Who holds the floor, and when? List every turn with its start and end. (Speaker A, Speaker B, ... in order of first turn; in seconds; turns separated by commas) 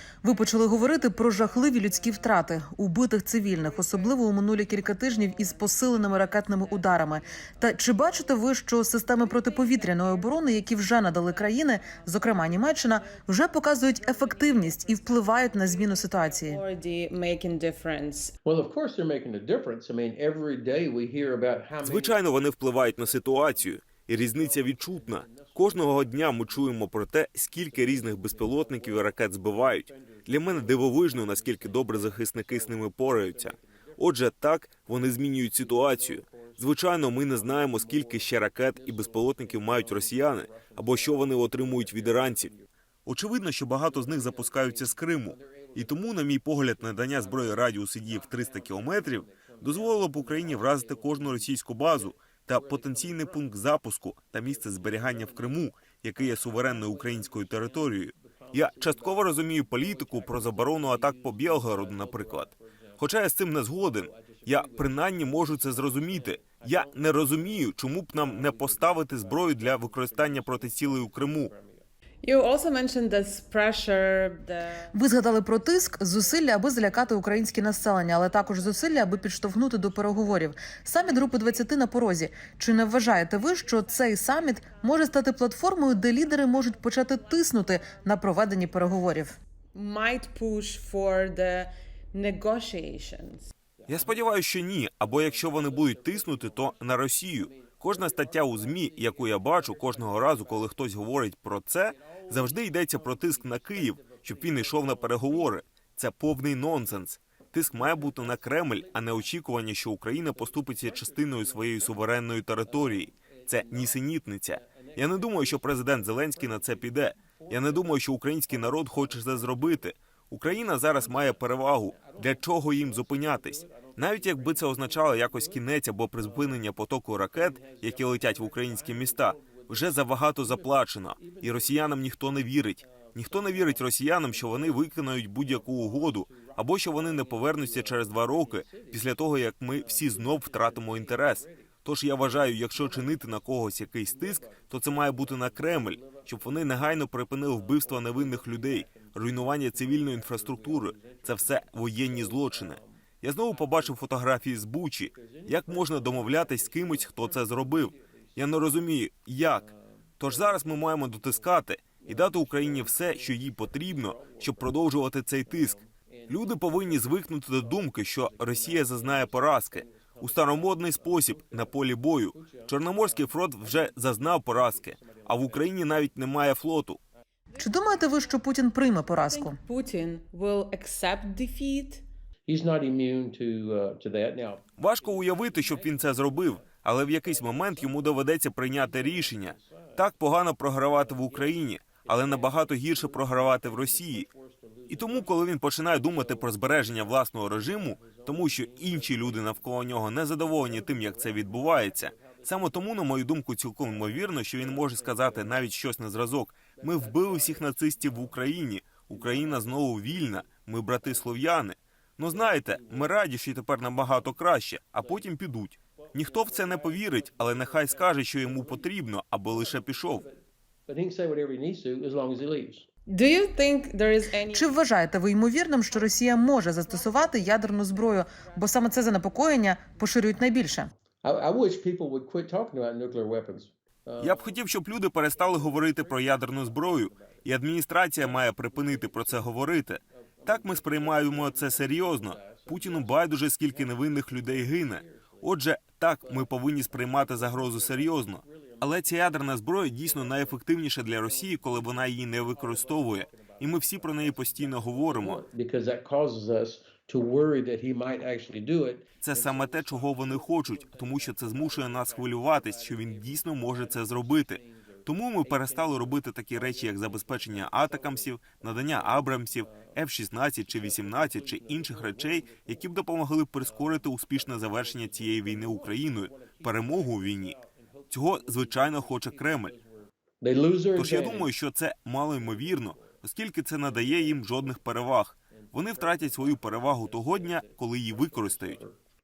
Speaker A: 0.2-16.6, Speaker B: 0.5-2.4, Speaker B: 3.6-4.2, Speaker B: 4.8-8.3, Speaker B: 9.0-13.3, Speaker B: 13.9-18.3, Speaker C: 18.4-22.2, Speaker D: 21.8-42.5, Speaker C: 22.8-26.9, Speaker C: 27.6-34.1, Speaker C: 35.5-42.7, Speaker D: 43.1-71.5, Speaker C: 43.8-46.1, Speaker C: 46.6-53.5, Speaker C: 54.5-63.1, Speaker C: 63.7-71.9, Speaker B: 72.2-74.9, Speaker A: 74.9-89.4, Speaker B: 81.1-81.4, Speaker B: 89.7-93.5, Speaker C: 93.8-94.4, Speaker D: 93.9-177.0, Speaker C: 95.0-100.8, Speaker C: 101.9-105.6, Speaker C: 107.7-109.3, Speaker C: 110.2-112.0, Speaker C: 112.6-119.9, Speaker C: 120.5-131.9, Speaker C: 132.8-141.8, Speaker C: 142.3-143.5, Speaker C: 144.0-147.0, Speaker C: 147.5-153.9, Speaker C: 155.1-158.4, Speaker C: 159.5-164.8, Speaker C: 165.4-175.8, Speaker A: 177.6-179.6, Speaker B: 179.1-182.0, Speaker C: 182.5-190.1, Speaker D: 184.8-194.3, Speaker C: 190.9-199.8, Speaker D: 194.9-220.2, Speaker C: 200.4-202.9, Speaker C: 203.9-205.8, Speaker C: 206.8-208.4, Speaker C: 209.1-210.3, Speaker C: 212.3-213.2, Speaker C: 215.0-215.3, Speaker C: 216.0-218.9, Speaker C: 219.5-220.4, Speaker C: 220.9-222.9, Speaker B: 223.1-224.8, Speaker A: 224.5-230.9, Speaker B: 226.6-229.4, Speaker C: 231.2-234.6, Speaker D: 234.2-255.4, Speaker C: 235.3-237.4, Speaker C: 238.2-245.6, Speaker C: 246.2-270.1, Speaker D: 259.2-277.6, Speaker C: 270.6-273.0, Speaker C: 273.6-281.5, Speaker D: 278.1-279.7, Speaker D: 280.9-288.8, Speaker C: 282.4-283.2, Speaker C: 283.8-284.8, Speaker C: 285.6-289.0